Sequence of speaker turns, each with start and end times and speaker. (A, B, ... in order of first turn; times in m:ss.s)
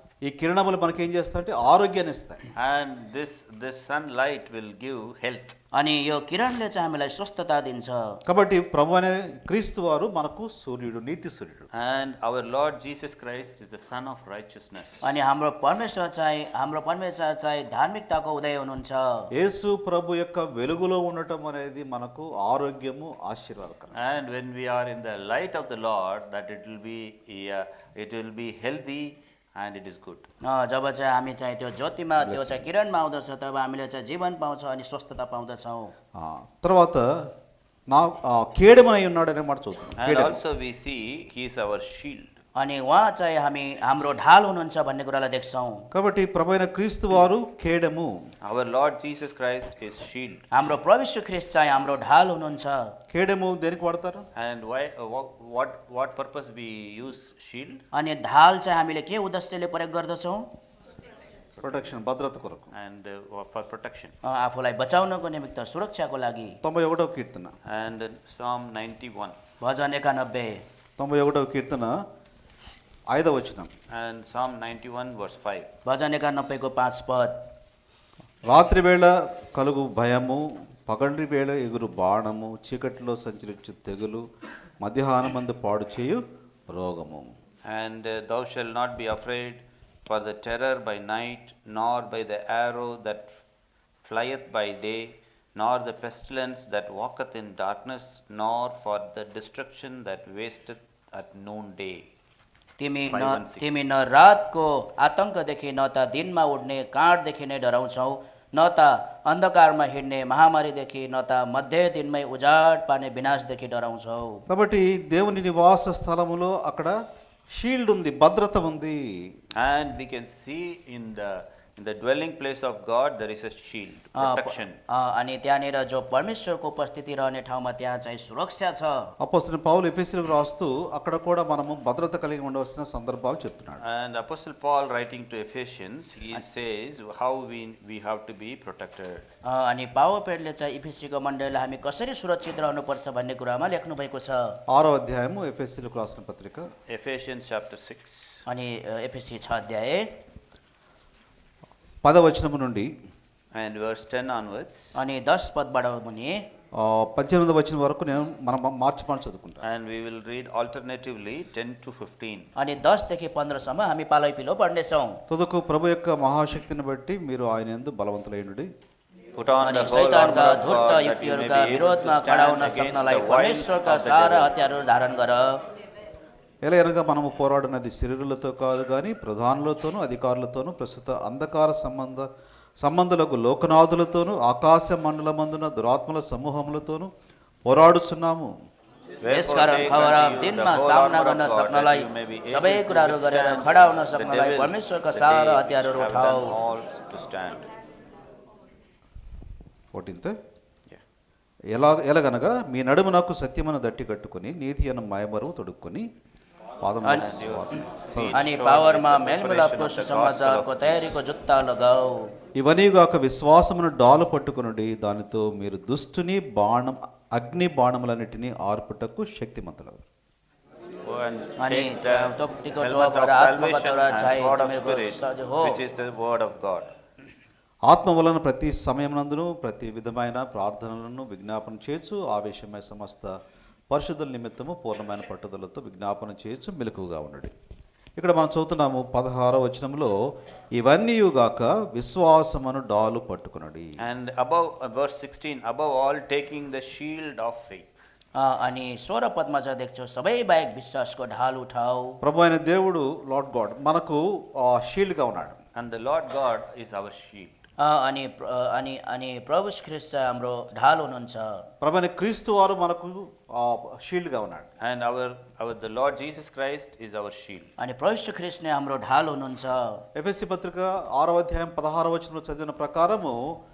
0:00.2-0:02.4 A
0:02.6-0:05.5 B
0:05.7-0:08.2 C
0:08.2-0:11.7 A
0:11.7-0:15.0 B
0:15.0-0:19.3 C
0:19.4-0:24.0 A
0:23.9-0:30.2 B
0:30.4-0:35.9 C
0:32.2-0:32.6 A
0:36.2-0:37.3 A
0:37.9-0:40.4 A
0:40.0-0:42.3 B
0:42.6-0:45.8 C
0:45.9-0:48.2 A
0:48.4-0:50.4 B
0:50.5-0:52.9 C
0:53.1-0:54.2 A
0:54.3-0:57.8 B
0:57.9-1:00.4 C
1:01.6-1:02.7 A
1:02.7-1:04.1 B
1:04.2-1:06.6 C
1:06.6-1:07.5 A
1:07.7-1:09.4 B
1:09.6-1:10.6 C
1:11.0-1:12.0 A
1:13.1-1:13.7 A
1:13.9-1:15.7 B
1:15.8-1:17.4 C
1:18.5-1:24.2 A
1:24.8-1:27.3 A
1:27.7-1:33.3 B
1:34.0-1:42.1 B
1:42.8-1:54.4 C
1:42.8-1:43.9 B
1:54.5-1:56.9 A
1:57.5-1:59.2 A
1:59.6-2:04.8 B
2:04.2-2:09.1 C
2:09.2-2:13.8 A
2:13.8-2:19.2 B
2:19.5-2:24.6 C
2:24.7-2:26.6 A
2:26.9-2:28.4 B
2:28.5-2:30.1 C
2:32.0-2:32.9 A
2:33.5-2:34.9 B
2:35.0-2:36.4 C
2:36.8-2:39.6 A
2:39.6-2:42.5 B
2:42.6-2:45.2 C
2:45.3-2:48.7 A
2:49.4-2:54.5 B
2:49.6-2:55.4 C
2:56.6-3:02.2 A
3:02.8-3:07.1 A
3:07.6-3:08.5 A
3:09.2-3:17.7 B
3:09.3-3:16.5 C
3:19.9-3:20.3 A
3:21.7-3:26.0 A
3:26.8-3:28.4 A
3:27.1-3:31.2 B
3:28.3-3:32.3 C
3:32.6-3:40.0 A
3:41.0-3:46.9 B
3:41.6-3:45.8 C
3:47.9-3:53.3 A
3:53.9-3:57.5 A
3:58.2-4:00.1 A
4:00.7-4:04.0 A
4:04.0-4:07.9 B
4:08.4-4:12.2 C
4:12.2-4:15.6 A
4:15.8-4:17.6 B
4:17.8-4:21.6 C
4:21.8-4:24.7 A
4:24.8-4:27.7 B
4:27.8-4:30.0 C
4:30.1-4:33.5 A